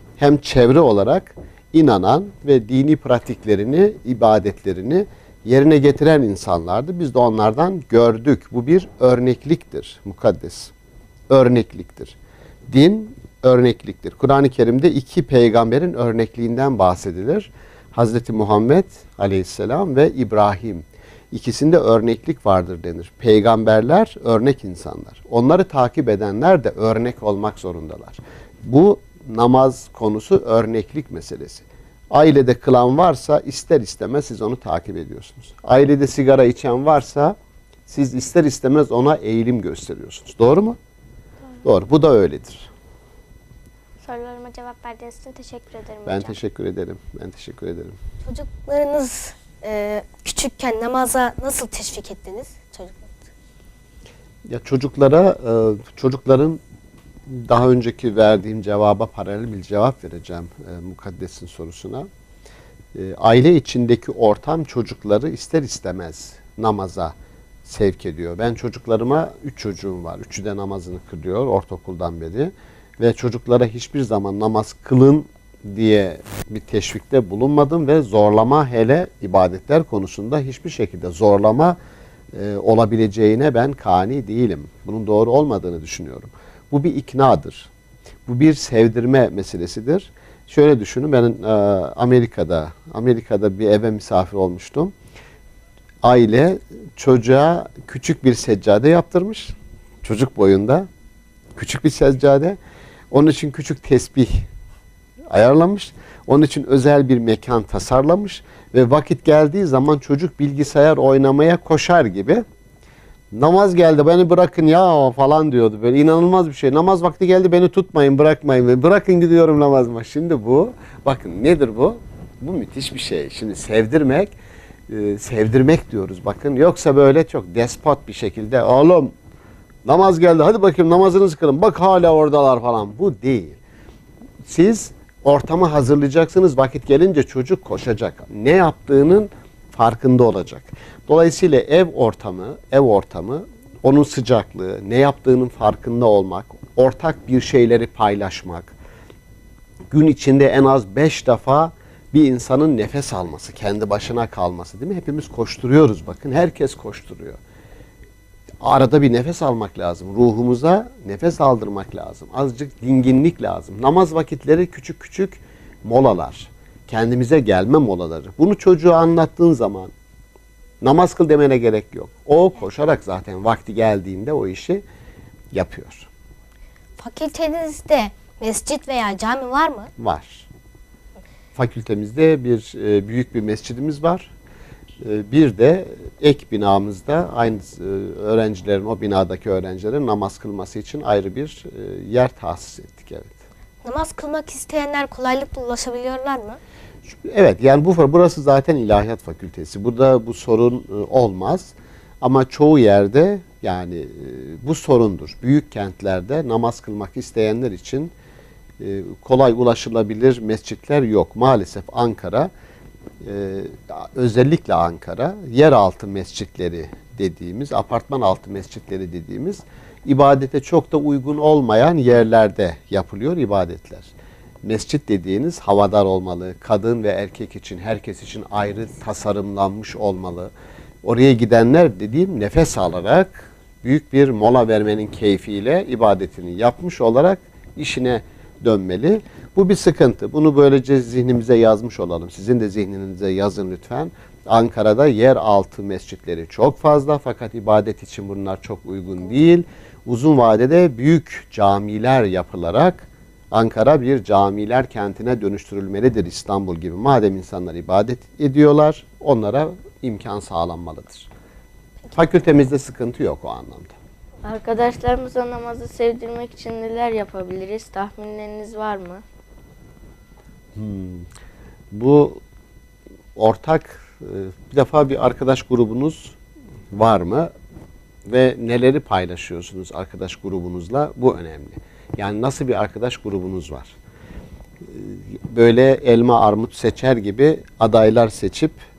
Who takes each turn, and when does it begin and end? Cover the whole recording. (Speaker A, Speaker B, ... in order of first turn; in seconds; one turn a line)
Speaker A: 0.2-10.7
Speaker A: 11.3-12.2
Speaker A: 12.7-37.4
Speaker A: 37.9-40.8
Speaker A: 41.6-42.7
Speaker B: 44.0-46.4
Speaker A: 46.1-48.0
Speaker C: 48.2-53.3
Speaker A: 54.5-56.6
Speaker A: 57.3-62.1
Speaker A: 62.9-81.8
Speaker A: 82.3-87.7
Speaker A: 88.3-94.9
Speaker A: 96.0-100.9
Speaker A: 101.6-102.6
Speaker A: 103.1-104.5
Speaker A: 105.3-112.4
Speaker A: 113.3-124.3
Speaker A: 124.9-129.1
Speaker A: 129.8-133.6
Speaker A: 134.4-148.8
Speaker A: 149.9-157.4
Speaker A: 158.6-169.9
Speaker A: 170.8-174.8
Speaker A: 175.5-176.1
Speaker C: 177.0-179.9
Speaker A: 180.0-180.5
Speaker A: 181.6-184.3
Speaker A: 185.0-193.4
Speaker C: 193.8-196.6
Speaker A: 197.1-208.1
Speaker A: 208.8-212.5
Speaker A: 213.2-224.1
Speaker A: 224.6-230.5
Speaker A: 231.0-261.3
Speaker A: 262.1-263.9
Speaker D: 264.4-269.2
Speaker A: 270.8-271.3
Speaker A: 271.9-272.4
Speaker A: 273.4-276.4
Speaker A: 276.9-277.5
Speaker A: 278.3-283.9
Speaker A: 284.9-288.8